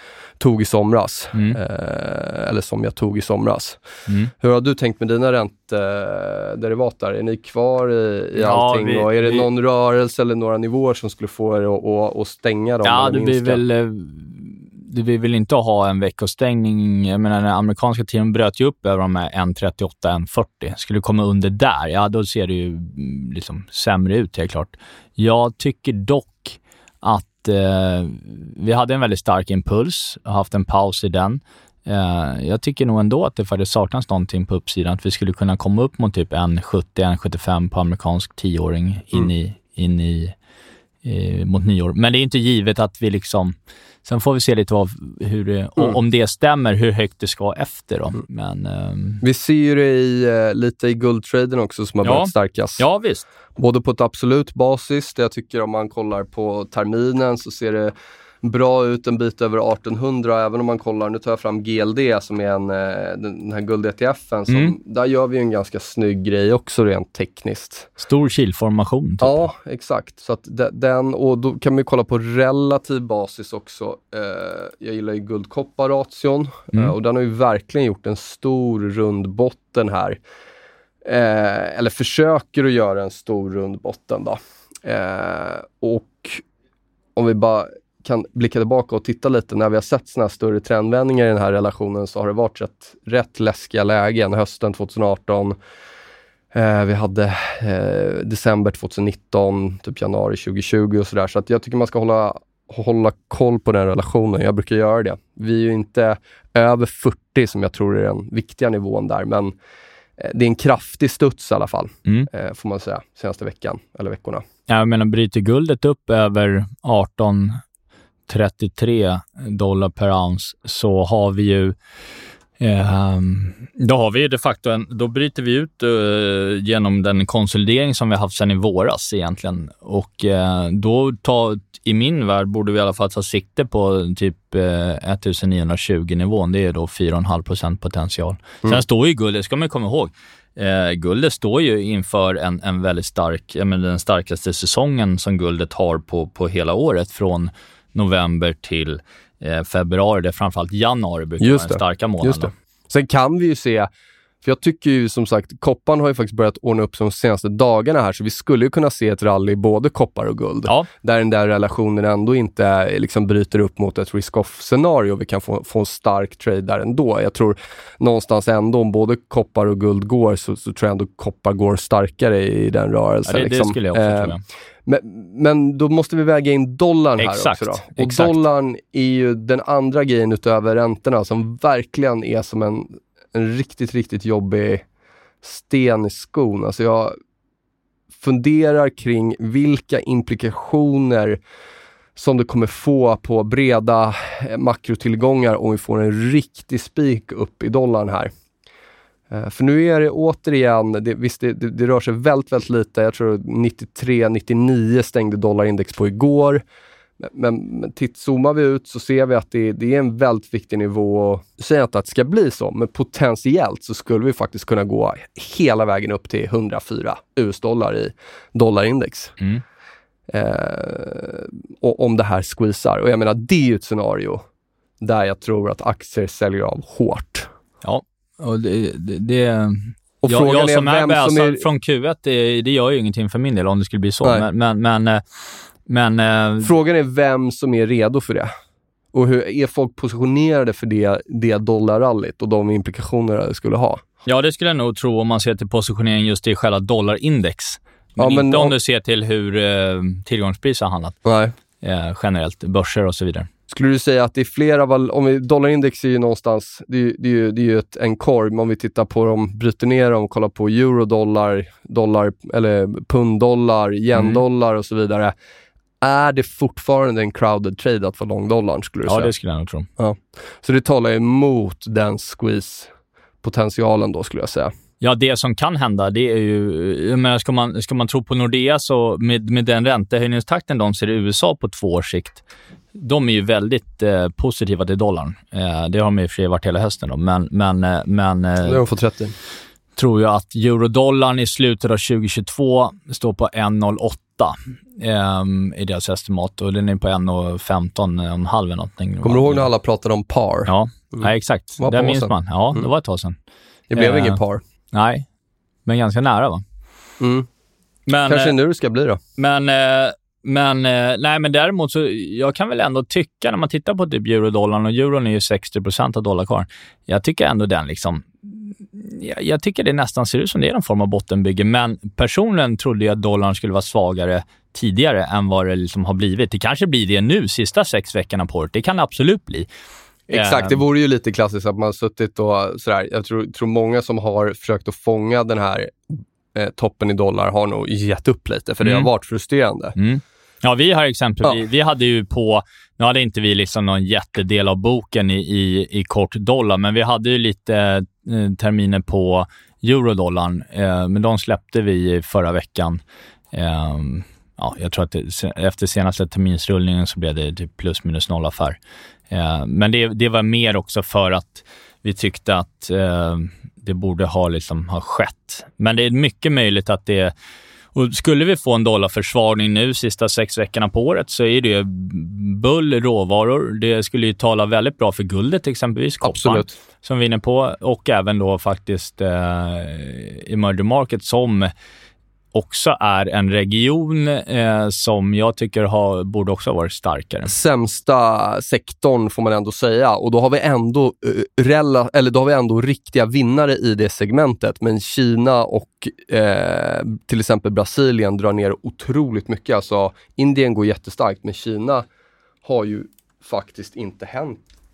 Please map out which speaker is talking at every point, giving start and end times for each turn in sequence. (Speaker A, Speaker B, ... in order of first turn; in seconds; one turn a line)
Speaker A: 0.4-3.8
Speaker B: 1.3-1.6
Speaker A: 4.4-13.6
Speaker B: 8.4-9.4
Speaker B: 12.8-40.3
Speaker B: 41.0-49.2
Speaker A: 49.2-52.8
Speaker B: 52.0-53.3
Speaker A: 53.6-67.9
Speaker B: 64.5-64.8
Speaker B: 68.0-69.4
Speaker A: 69.2-80.2
Speaker A: 81.0-86.4
Speaker A: 87.2-95.5
Speaker A: 96.5-109.5
Speaker A: 110.2-114.4
Speaker B: 114.7-117.6
Speaker B: 118.3-121.8
Speaker B: 122.6-152.5
Speaker A: 151.4-153.9
Speaker A: 154.4-184.8
Speaker B: 173.2-174.4
Speaker B: 177.2-178.4
Speaker A: 185.4-187.2
Speaker A: 188.1-191.4
Speaker A: 192.2-198.3
Speaker A: 199.3-206.6
Speaker A: 207.2-219.3
Speaker A: 220.3-224.4
Speaker A: 225.0-227.5
Speaker B: 227.8-236.7
Speaker A: 230.2-231.7
Speaker A: 236.6-238.5
Speaker A: 239.1-244.0
Speaker B: 244.2-251.2
Speaker A: 248.2-248.7
Speaker A: 251.2-251.5
Speaker B: 251.8-253.5
Speaker A: 253.7-265.3
Speaker B: 264.1-264.4
Speaker A: 266.0-269.3
Speaker B: 269.1-269.9
Speaker A: 270.0-272.9
Speaker A: 273.4-274.7
Speaker B: 275.0-282.4
Speaker B: 282.9-288.8
Speaker A: 288.6-289.4
Speaker B: 290.0-299.7
Speaker A: 299.2-302.9
Speaker B: 300.6-303.4
Speaker A: 303.9-304.6
Speaker B: 303.9-304.4
Speaker B: 304.9-305.2
Speaker B: 305.9-306.6
Speaker A: 307.2-307.5
Speaker B: 308.1-308.5
Speaker A: 308.2-309.2
Speaker B: 309.4-329.7
Speaker A: 330.3-339.9
Speaker B: 330.3-330.8
Speaker B: 338.8-339.1
Speaker B: 340.0-353.0
Speaker B: 353.5-358.8
Speaker B: 359.3-367.3
Speaker B: 367.9-381.7
Speaker A: 376.2-376.7
Speaker B: 382.5-387.5
Speaker A: 387.4-402.1
Speaker A: 402.6-404.6